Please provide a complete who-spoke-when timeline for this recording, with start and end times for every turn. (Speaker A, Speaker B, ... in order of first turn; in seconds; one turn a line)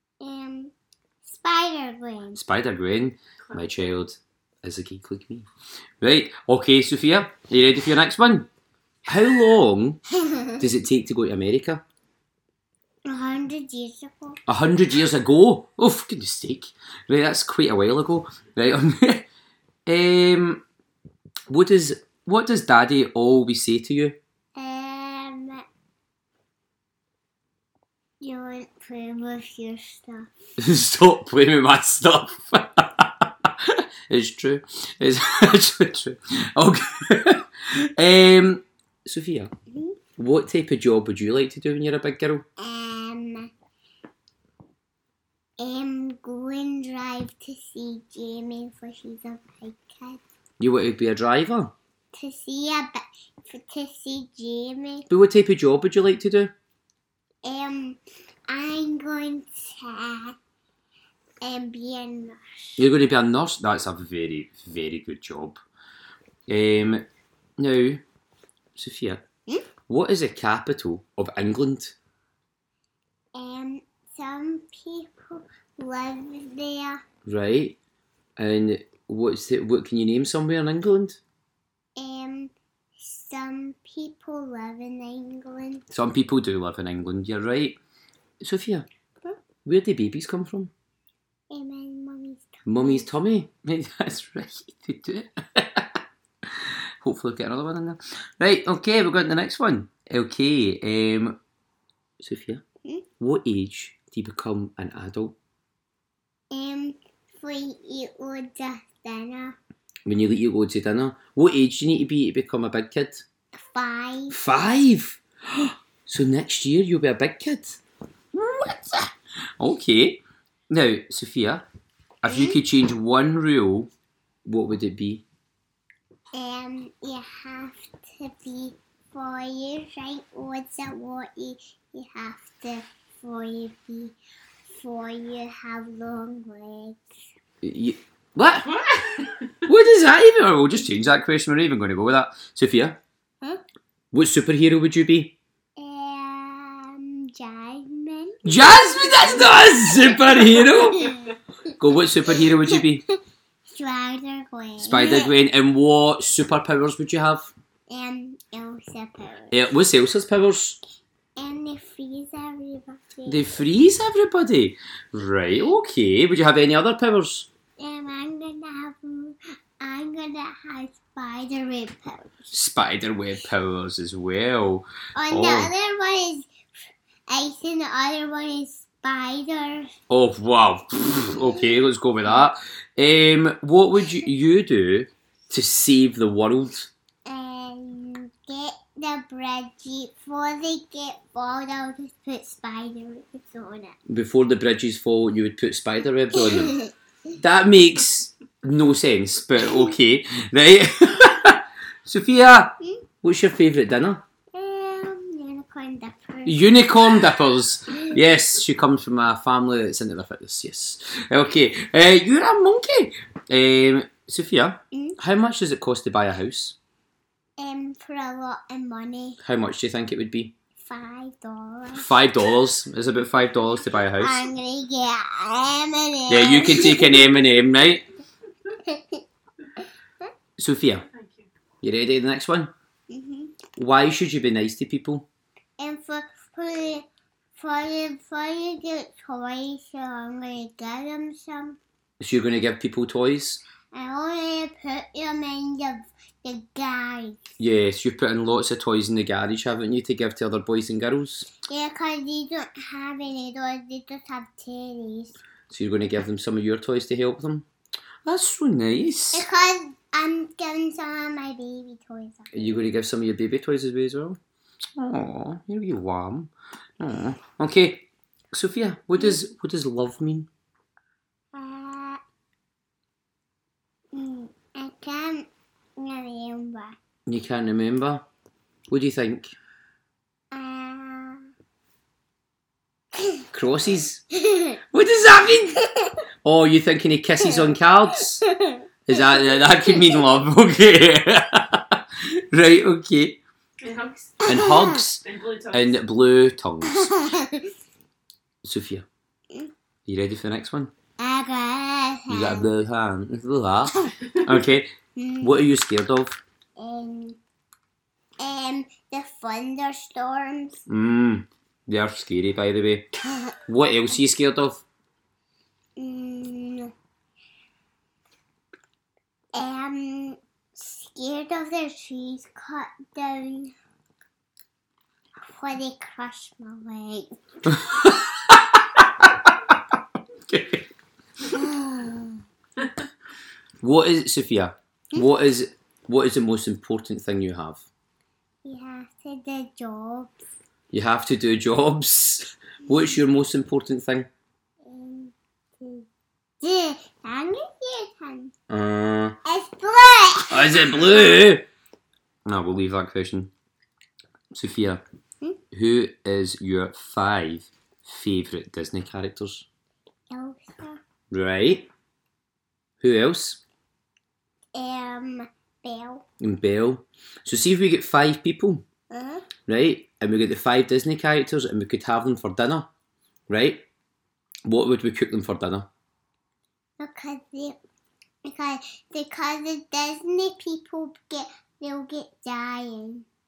Speaker A: 0.2-2.4
Speaker B: 2.4-5.5
Speaker B: 6.0-8.5
Speaker B: 9.1-10.0
Speaker B: 10.6-11.8
Speaker A: 13.1-14.4
Speaker B: 14.5-19.3
Speaker B: 19.9-20.6
Speaker B: 21.5-24.2
Speaker A: 24.6-25.6
Speaker A: 28.2-30.3
Speaker B: 30.6-39.5
Speaker B: 40.2-42.4
Speaker A: 42.6-43.5
Speaker A: 45.6-50.2
Speaker B: 50.6-51.7
Speaker A: 52.1-55.1
Speaker B: 55.1-56.5
Speaker A: 57.4-60.4
Speaker A: 61.4-62.8
Speaker B: 62.8-65.6
Speaker B: 66.5-67.0
Speaker B: 67.6-68.0
Speaker B: 68.8-69.2
Speaker B: 69.9-72.0
Speaker A: 73.3-77.0
Speaker B: 77.3-77.8
Speaker B: 78.4-81.2
Speaker A: 82.0-85.8
Speaker B: 85.9-87.8
Speaker B: 88.4-88.9
Speaker B: 89.7-90.7
Speaker A: 91.5-93.1
Speaker B: 92.7-95.9
Speaker B: 96.5-101.4
Speaker B: 102.2-102.6
Speaker B: 103.2-105.4
Speaker A: 106.5-109.6
Speaker B: 110.1-113.2
Speaker A: 113.5-114.4
Speaker B: 114.3-117.8
Speaker B: 118.3-121.7
Speaker B: 122.2-123.9
Speaker A: 122.3-122.6
Speaker B: 124.5-125.2
Speaker A: 126.3-134.2
Speaker A: 134.7-137.1
Speaker B: 137.6-138.8
Speaker C: 138.9-139.3
Speaker B: 139.7-143.0
Speaker B: 144.1-145.4
Speaker A: 145.8-151.4
Speaker B: 148.4-151.2
Speaker B: 151.8-153.0
Speaker A: 152.3-153.0
Speaker A: 153.7-155.3
Speaker B: 154.8-157.5
Speaker A: 157.9-159.6
Speaker B: 159.5-160.8
Speaker A: 161.4-163.5
Speaker B: 163.3-167.5
Speaker A: 167.8-172.5
Speaker B: 172.5-175.7
Speaker A: 175.2-176.5
Speaker A: 177.3-179.9
Speaker B: 180.1-186.9
Speaker A: 187.3-194.0
Speaker B: 194.1-196.8
Speaker A: 196.4-196.9
Speaker B: 197.4-204.2
Speaker A: 204.5-206.9
Speaker B: 206.5-216.8
Speaker A: 217.6-219.4
Speaker B: 219.4-220.5
Speaker A: 220.8-222.1
Speaker B: 222.0-224.4
Speaker A: 224.2-227.2
Speaker B: 226.3-228.1
Speaker A: 228.8-229.2
Speaker B: 230.6-231.1
Speaker C: 231.1-231.5
Speaker B: 231.8-232.7
Speaker A: 233.1-233.6
Speaker B: 233.8-235.3
Speaker A: 235.8-237.1
Speaker A: 237.6-241.8
Speaker B: 242.2-243.6
Speaker A: 243.9-247.4
Speaker B: 247.6-251.5
Speaker A: 251.7-255.4
Speaker B: 255.7-257.7
Speaker B: 258.2-259.5
Speaker A: 259.3-262.9
Speaker B: 262.5-264.4
Speaker B: 265.0-270.5
Speaker A: 271.5-272.2
Speaker A: 274.1-277.0
Speaker B: 277.3-278.2
Speaker B: 278.9-279.5
Speaker A: 280.5-281.5
Speaker B: 283.5-284.2
Speaker A: 284.4-284.8
Speaker B: 284.9-285.8
Speaker B: 286.4-288.4
Speaker A: 288.4-288.8
Speaker B: 289.1-293.4
Speaker A: 289.9-290.1
Speaker C: 293.8-296.0
Speaker A: 294.4-294.9
Speaker B: 294.5-297.1
Speaker A: 296.9-297.7
Speaker B: 298.6-299.1
Speaker B: 300.1-300.9
Speaker A: 301.2-302.7
Speaker B: 302.3-304.9
Speaker A: 305.2-305.5
Speaker B: 305.4-306.4
Speaker A: 306.8-307.4
Speaker A: 308.4-310.8
Speaker B: 310.9-313.1
Speaker B: 313.7-314.8
Speaker A: 316.0-316.9
Speaker A: 319.5-323.7
Speaker A: 325.4-327.3
Speaker B: 327.7-329.3
Speaker B: 330.5-330.9
Speaker A: 331.5-332.4
Speaker B: 333.8-337.8
Speaker A: 338.6-340.3
Speaker B: 340.9-344.3
Speaker A: 344.8-346.1
Speaker A: 346.6-348.5
Speaker B: 348.7-349.4
Speaker A: 349.4-351.1
Speaker B: 350.5-351.6
Speaker B: 352.4-353.5
Speaker B: 354.5-355.0
Speaker B: 355.7-359.6
Speaker A: 360.3-361.0
Speaker B: 361.3-361.9
Speaker B: 363.0-363.6
Speaker A: 364.7-366.2
Speaker B: 366.4-368.8
Speaker A: 369.1-369.5
Speaker B: 369.7-372.9
Speaker B: 373.5-373.8
Speaker B: 374.7-375.9
Speaker A: 377.0-377.8
Speaker A: 378.4-383.2